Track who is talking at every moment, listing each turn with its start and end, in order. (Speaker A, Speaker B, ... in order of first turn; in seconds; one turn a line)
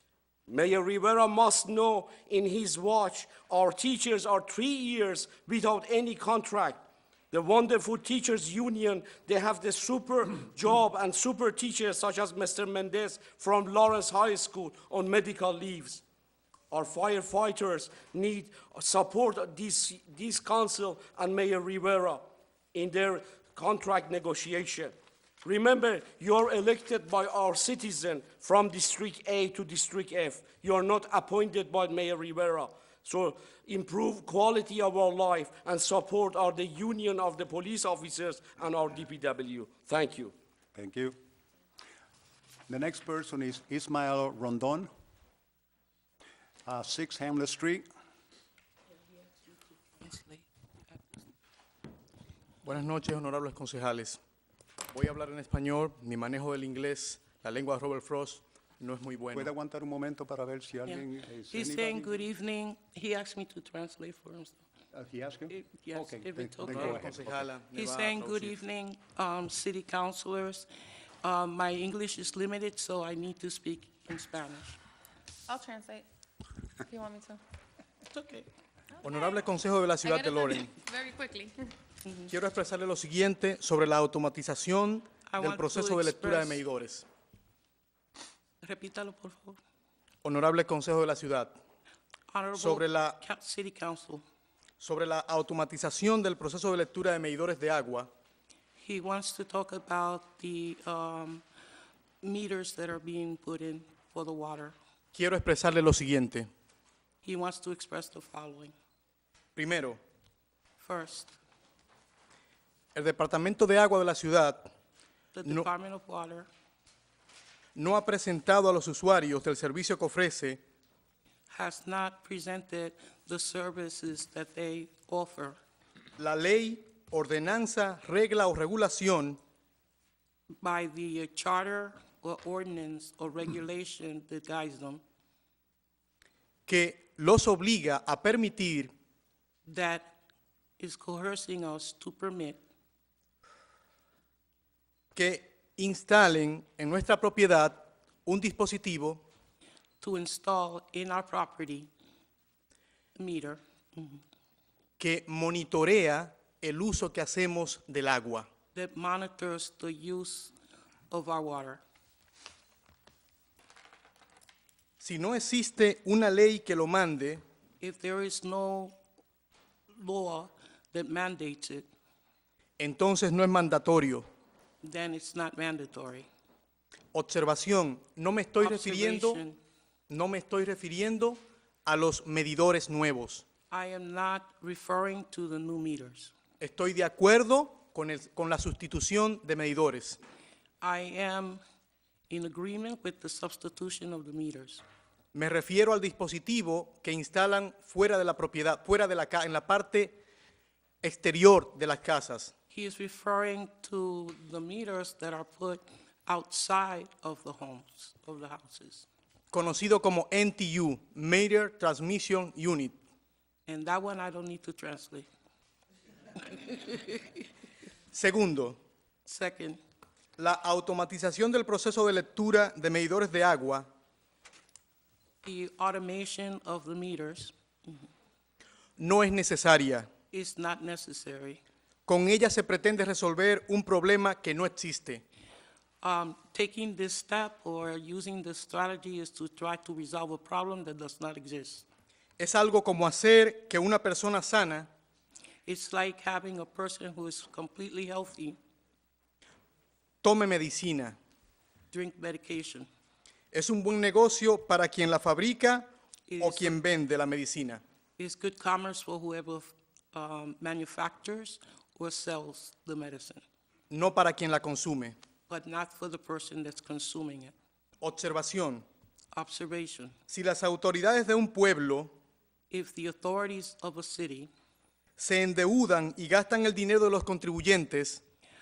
Speaker A: 0.5-6.8
Speaker A: 7.3-16.0
Speaker A: 16.7-22.2
Speaker A: 22.7-40.3
Speaker B: 40.7-41.2
Speaker B: 42.7-44.9
Speaker B: 46.6-47.9
Speaker C: 50.0-51.0
Speaker D: 52.6-54.2
Speaker D: 54.9-59.5
Speaker B: 59.3-62.1
Speaker C: 60.9-64.6
Speaker B: 64.9-67.5
Speaker C: 65.5-67.1
Speaker D: 66.7-68.5
Speaker C: 67.7-70.7
Speaker C: 71.2-74.8
Speaker E: 75.5-76.0
Speaker E: 76.9-77.4
Speaker C: 78.1-78.5
Speaker E: 79.0-79.5
Speaker D: 79.0-80.7
Speaker E: 80.0-81.7
Speaker C: 82.0-82.3
Speaker D: 82.3-87.0
Speaker C: 85.3-86.6
Speaker C: 88.6-89.6
Speaker D: 90.2-91.5
Speaker C: 92.3-94.2
Speaker D: 92.5-93.2
Speaker D: 94.8-98.1
Speaker C: 98.8-101.4
Speaker C: 102.2-104.8
Speaker D: 105.1-106.5
Speaker C: 107.2-108.7
Speaker D: 109.5-110.0
Speaker C: 110.8-111.3
Speaker D: 112.9-114.7
Speaker C: 115.3-116.5
Speaker D: 117.7-120.6
Speaker C: 121.5-125.6
Speaker D: 126.2-129.4
Speaker C: 130.6-135.0
Speaker D: 136.7-138.9
Speaker C: 139.7-140.1
Speaker C: 140.8-142.6
Speaker D: 145.1-149.2
Speaker C: 150.0-151.9
Speaker C: 153.2-154.2
Speaker D: 155.0-158.5
Speaker C: 158.7-160.5
Speaker C: 161.1-161.8
Speaker D: 165.0-167.4
Speaker C: 167.8-169.0
Speaker C: 169.9-171.8
Speaker D: 172.8-174.2
Speaker C: 174.8-176.3
Speaker D: 177.1-179.4
Speaker C: 178.6-179.6
Speaker D: 180.1-183.4
Speaker C: 183.7-186.3
Speaker D: 186.6-190.2
Speaker C: 190.8-191.6
Speaker C: 192.3-194.8
Speaker D: 195.3-200.2
Speaker D: 201.0-202.5
Speaker C: 202.7-209.1
Speaker D: 209.5-212.9
Speaker C: 213.7-215.3
Speaker C: 216.4-217.5
Speaker D: 218.1-218.8
Speaker C: 219.2-219.8
Speaker D: 220.4-223.9
Speaker C: 225.4-228.1
Speaker D: 229.0-230.1
Speaker C: 230.3-231.6
Speaker D: 232.1-235.2
Speaker C: 236.0-241.8
Speaker D: 242.4-244.9
Speaker C: 245.7-248.6
Speaker D: 250.2-251.2
Speaker C: 251.9-252.9
Speaker D: 253.5-255.9
Speaker C: 256.3-256.8
Speaker D: 256.4-257.8
Speaker C: 258.2-263.4
Speaker D: 263.9-265.1
Speaker C: 265.5-267.5
Speaker D: 268.0-268.9
Speaker C: 269.3-270.1
Speaker D: 270.3-272.1
Speaker C: 272.7-274.5
Speaker D: 275.2-278.2